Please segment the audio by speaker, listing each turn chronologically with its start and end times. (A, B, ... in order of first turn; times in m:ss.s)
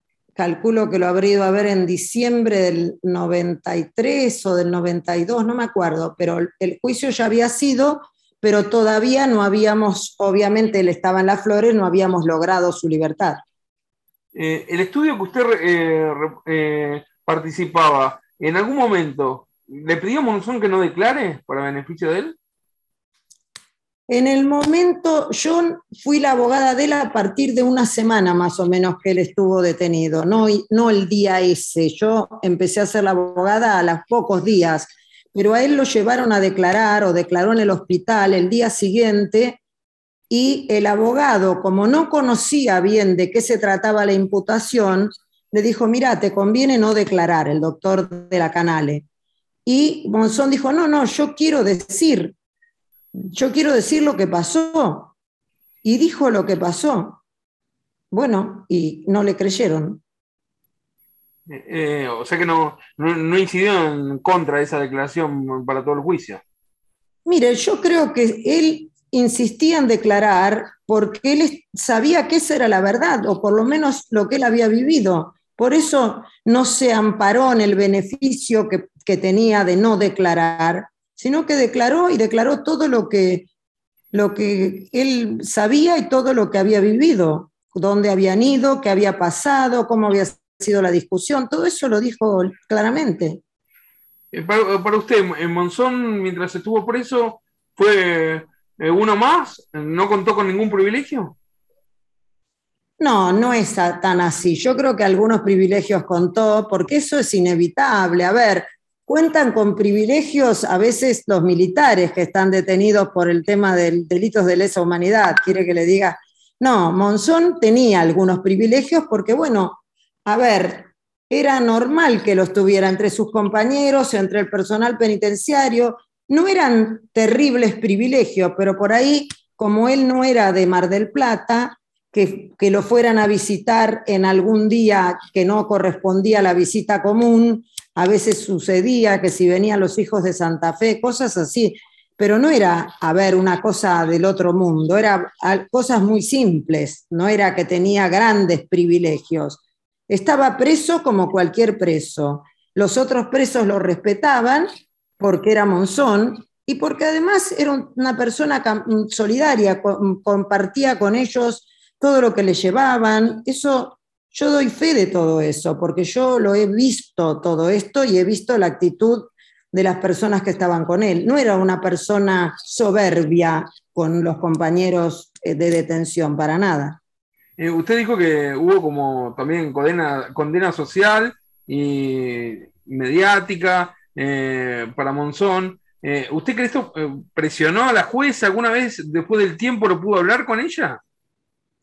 0:00.3-0:13.4 A
0:14.3-0:22.4 B
0:24.1-0:39.6 A
0:40.3-0:49.0 A
0:49.6-0:52.3 A
0:53.1-0:55.1 A
0:55.8-0:57.2 A
0:58.1-1:00.0 A
1:01.5-1:06.4 B
1:07.2-1:23.5 A
1:24.1-1:33.4 A
1:34.3-1:41.3 B
1:43.0-2:34.7 A
2:35.2-2:57.0 A
2:57.6-3:11.0 B